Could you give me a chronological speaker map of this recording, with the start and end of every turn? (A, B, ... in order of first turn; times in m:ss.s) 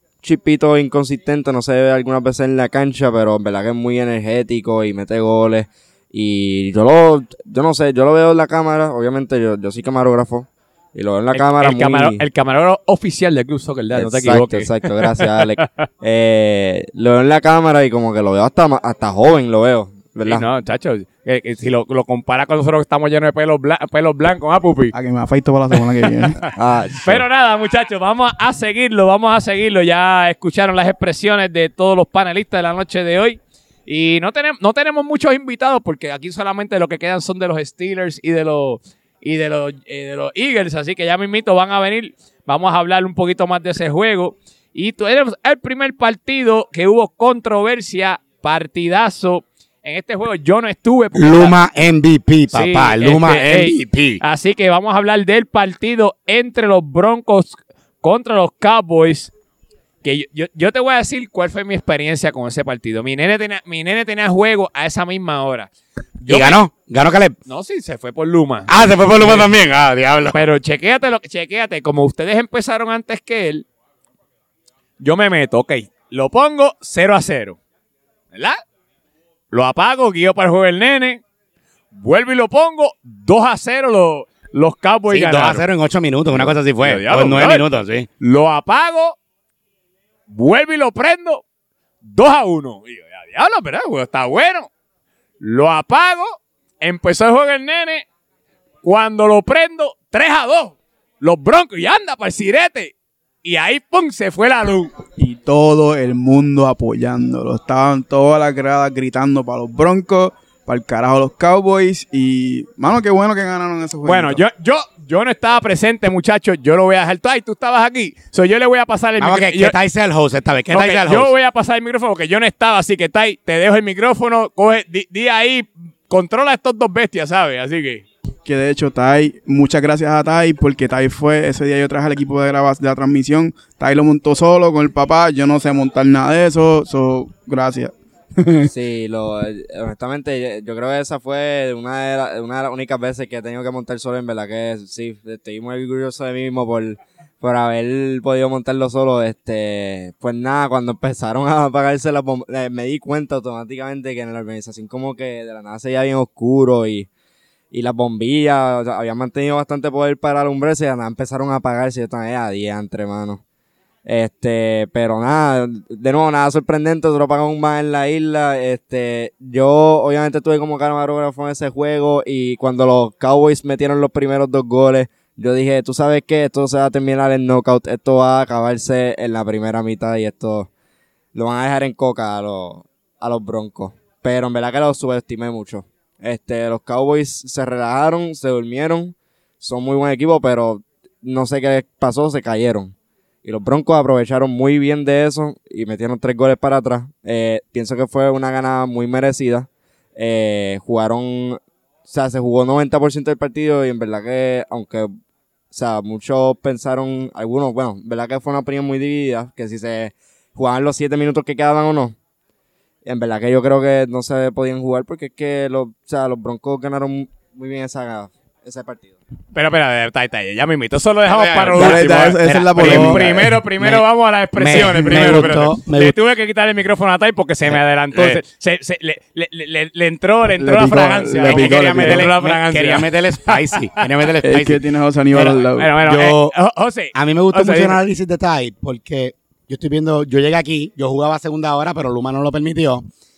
0:00.2-0:12.2 A
0:11.3-0:15.8 B
0:13.9-0:20.4 A
0:20.2-0:24.9 B
0:24.9-0:26.5 C
0:26.6-0:27.2 A
0:27.0-0:51.5 B
0:51.1-0:54.2 D
0:52.5-0:59.3 B
1:00.0-1:05.7 B
1:06.2-1:07.4 D
1:06.2-1:06.6 B
1:07.5-1:08.7 B
1:08.7-1:10.4 D
1:10.3-1:13.6 B
1:15.0-1:17.6 B
1:18.3-1:18.6 B
1:19.5-1:21.2 B
1:21.9-1:25.6 B
1:25.1-1:28.1 D
1:26.3-1:27.6 B
1:28.2-1:29.2 B
1:30.3-1:31.4 B
1:32.0-1:34.7 B
1:35.4-1:38.0 B
1:38.8-1:44.9 B
1:45.2-1:54.4 C
1:54.0-1:59.8 B
1:59.2-2:01.3 D
2:00.7-2:08.0 B
2:08.4-2:18.7 C
2:18.7-2:37.1 A
2:37.7-2:43.4 A
2:44.0-3:00.7 A
3:01.3-3:25.1 A
3:25.7-3:32.2 A
3:33.0-3:39.2 A
3:39.5-3:54.1 B
3:41.3-3:44.0 D
3:41.7-3:43.5 C
3:44.6-3:46.2 D
3:47.7-3:48.4 D
3:50.6-3:52.3 C
3:51.3-3:56.5 D
3:54.4-3:55.9 C
3:55.4-3:58.0 B
3:57.1-4:03.1 D